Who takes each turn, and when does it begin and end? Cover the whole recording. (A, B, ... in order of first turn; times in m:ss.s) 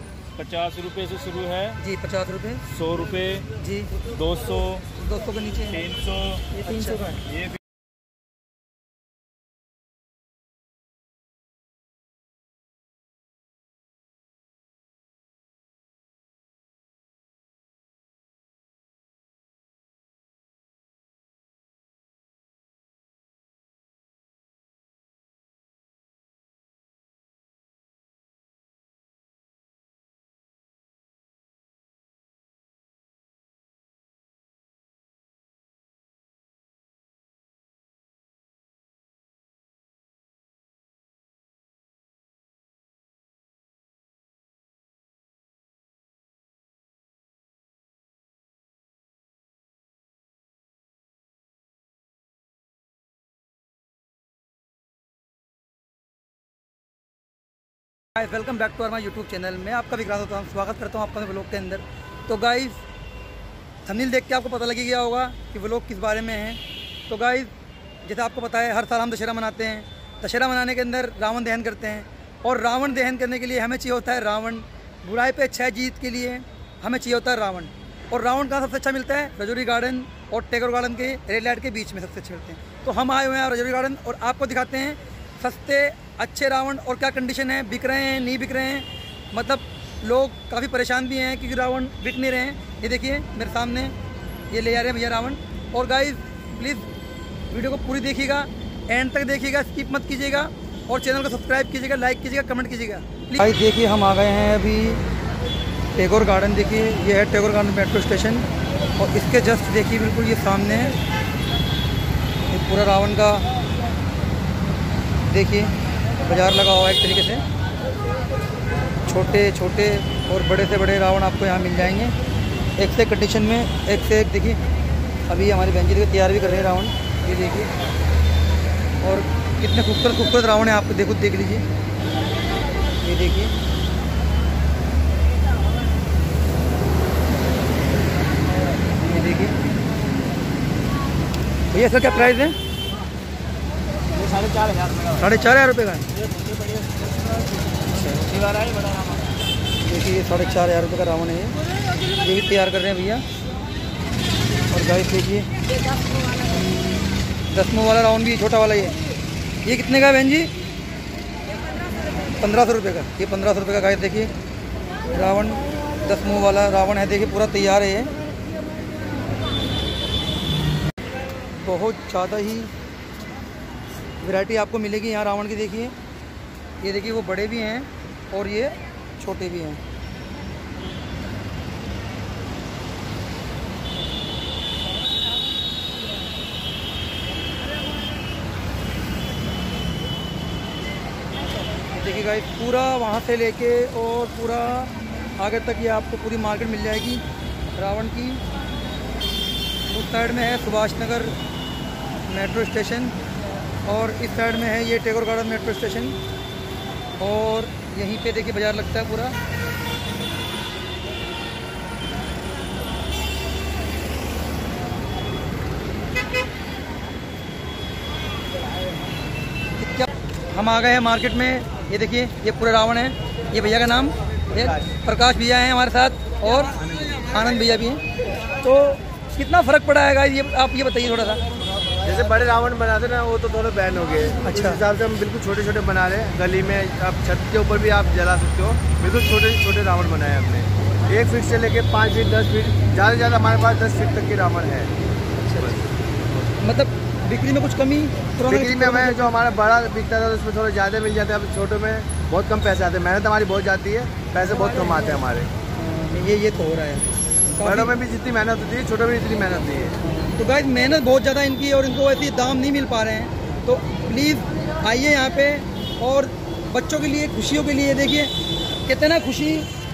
0:00.4-0:01.8 A
0:01.8-0:02.6 B
0:02.7-0:03.5 A
0:03.6-0:03.9 B
0:04.0-0:04.8 A
0:05.0-0:05.8 B
0:05.7-0:06.5 A
0:06.6-0:07.0 B
0:07.3-0:07.6 A
0:58.1-1:02.8 B
1:03.8-1:07.5 B
1:08.0-1:33.9 B
1:34.5-1:36.9 B
1:37.5-1:45.0 B
1:45.9-1:48.4 B
1:49.0-1:50.9 B
1:52.5-1:53.4 B
1:55.3-1:57.4 B
1:59.0-2:02.1 B
2:02.8-2:04.6 B
2:05.2-2:07.7 B
2:09.0-2:11.6 B
2:13.0-2:13.5 B
2:19.0-2:19.6 B
2:21.7-2:22.6 B
2:24.1-2:25.2 C
2:25.2-2:26.0 B
2:26.2-2:27.3 C
2:27.9-2:28.2 B
2:28.0-2:29.2 C
2:29.8-2:33.2 B
2:34.7-2:35.5 B
2:37.5-2:39.0 B
2:39.6-2:40.5 B
2:42.3-2:44.3 B
2:45.1-2:48.1 B
2:51.6-2:52.7 B
2:54.2-2:55.9 B
2:56.8-2:59.8 B
3:11.9-3:17.2 B
3:17.7-3:18.4 B
3:19.9-3:21.3 B
3:22.2-3:23.1 B
3:23.8-3:26.2 B
3:27.2-3:29.3 B
3:39.8-3:48.0 B
3:44.5-3:44.9 C
3:46.9-3:47.2 C
3:48.6-3:51.4 B
3:52.0-4:04.9 C
3:54.4-3:54.8 B
4:05.3-4:05.8 B
4:05.6-4:06.5 C
4:06.6-4:09.6 B
4:08.5-4:15.5 C
4:14.4-4:15.2 B
4:15.7-4:17.9 B
4:17.6-4:20.0 C
4:20.0-4:28.3 B
4:28.8-4:29.7 B